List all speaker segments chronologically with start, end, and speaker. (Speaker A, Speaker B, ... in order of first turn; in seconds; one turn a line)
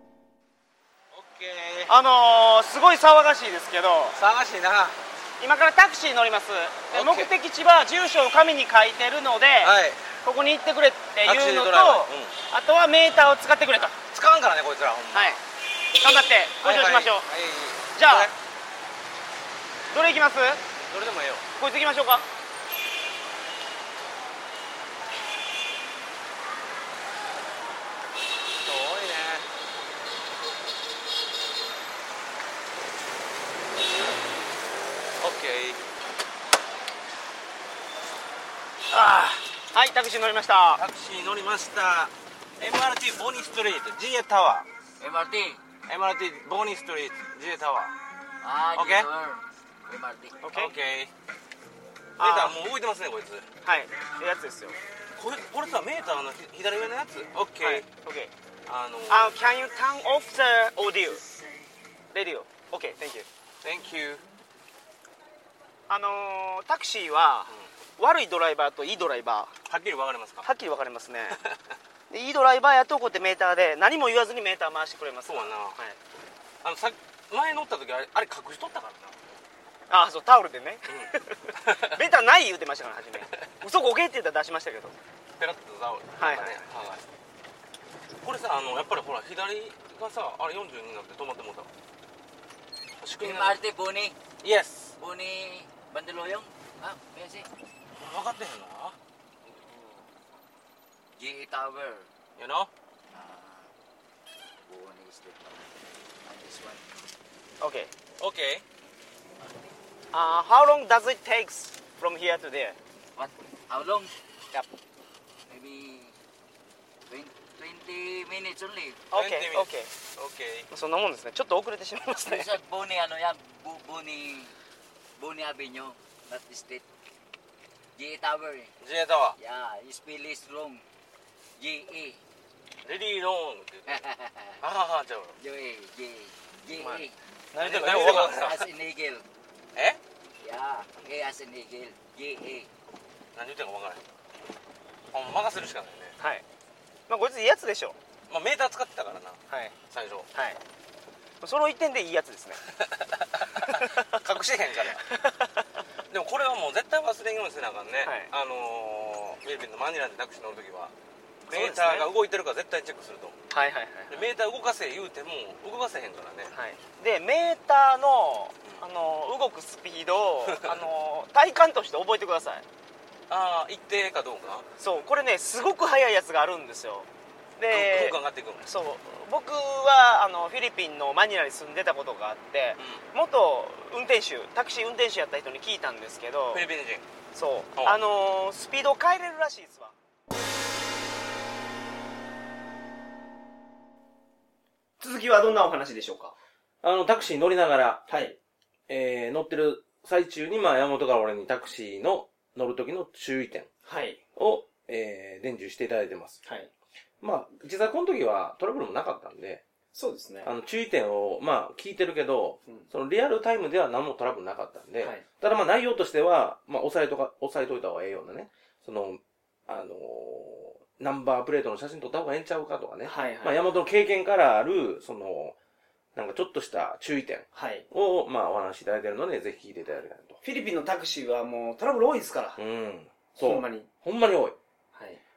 Speaker A: 1.1-1.9
Speaker B: 1.9-4.2
Speaker A: 4.2-5.0
Speaker B: 5.4-14.0
Speaker A: 6.9-7.3
Speaker A: 9.6-10.0
Speaker A: 11.2-12.3
Speaker A: 14.1-15.4
Speaker B: 15.1-15.4
Speaker B: 16.0-17.3
Speaker A: 16.6-18.4
Speaker B: 17.9-18.3
Speaker B: 19.9-20.6
Speaker A: 20.8-21.4
Speaker B: 21.6-22.3
Speaker A: 28.6-29.5
Speaker A: 35.2-35.8
Speaker A: 38.9-39.4
Speaker B: 39.7-40.8
Speaker A: 40.8-44.7
Speaker C: 45.0-45.6
Speaker A: 45.9-48.0
Speaker C: 48.4-50.4
Speaker A: 48.7-49.1
Speaker B: 50.4-50.7
Speaker A: 50.5-51.1
Speaker B: 52.2-52.6
Speaker A: 52.2-53.5
Speaker B: 53.6-54.8
Speaker A: 55.1-57.9
Speaker B: 57.6-58.3
Speaker A: 58.7-59.4
Speaker B: 59.1-61.2
Speaker B: 62.1-63.3
Speaker A: 63.6-64.2
Speaker B: 65.9-69.5
Speaker A: 69.7-70.5
Speaker B: 70.4-71.4
Speaker B: 72.1-76.0
Speaker A: 75.3-75.8
Speaker A: 76.6-79.2
Speaker B: 79.9-85.0
Speaker A: 80.9-82.0
Speaker A: 85.4-87.1
Speaker B: 86.2-86.6
Speaker A: 88.2-91.7
Speaker A: 93.0-93.6
Speaker C: 93.2-94.2
Speaker A: 94.4-95.0
Speaker C: 95.0-97.5
Speaker A: 98.0-99.0
Speaker C: 101.2-102.1
Speaker A: 102.4-102.7
Speaker C: 103.1-103.7
Speaker C: 104.7-105.7
Speaker C: 106.2-106.8
Speaker B: 107.6-107.9
Speaker A: 108.2-108.6
Speaker C: 109.4-109.7
Speaker B: 110.1-112.8
Speaker C: 113.2-114.1
Speaker C: 115.5-116.2
Speaker C: 117.1-119.0
Speaker B: 119.1-119.9
Speaker A: 119.1-120.7
Speaker B: 120.7-122.5
Speaker C: 122.1-124.6
Speaker C: 125.2-126.8
Speaker C: 128.0-128.7
Speaker A: 128.8-129.4
Speaker C: 129.4-130.8
Speaker C: 131.6-132.2
Speaker A: 132.8-134.1
Speaker C: 133.9-134.6
Speaker A: 134.6-135.4
Speaker C: 135.4-137.2
Speaker A: 136.8-138.7
Speaker B: 137.5-138.4
Speaker C: 138.1-139.3
Speaker A: 139.8-140.0
Speaker C: 140.4-142.7
Speaker A: 143.3-144.0
Speaker A: 145.1-146.2
Speaker B: 146.2-146.4
Speaker B: 147.1-148.0
Speaker A: 148.3-150.3
Speaker B: 149.5-149.8
Speaker B: 150.3-150.6
Speaker B: 151.4-152.6
Speaker A: 152.8-155.1
Speaker B: 153.6-154.2
Speaker B: 154.9-155.6
Speaker A: 156.1-160.9
Speaker B: 158.0-158.3
Speaker B: 161.5-162.1
Speaker A: 161.5-163.4
Speaker B: 163.5-164.3
Speaker A: 164.1-166.5
Speaker B: 166.5-172.7
Speaker A: 170.5-170.8
Speaker A: 173.3-174.7
Speaker B: 174.8-186.6
Speaker A: 177.7-178.7
Speaker A: 182.8-183.0
Speaker A: 186.5-187.1
Speaker B: 187.3-189.9
Speaker A: 187.8-188.0
Speaker B: 195.0-196.3
Speaker A: 196.8-198.1
Speaker B: 198.1-198.4
Speaker A: 198.9-203.7
Speaker B: 203.9-204.2
Speaker A: 204.4-206.4
Speaker B: 206.4-206.7
Speaker A: 207.2-209.6
Speaker B: 209.9-210.5
Speaker A: 210.4-225.6
Speaker B: 223.1-223.6
Speaker A: 226.2-230.4
Speaker B: 227.5-227.9
Speaker B: 230.4-232.6
Speaker A: 232.6-234.6
Speaker B: 233.4-233.9
Speaker B: 234.9-235.2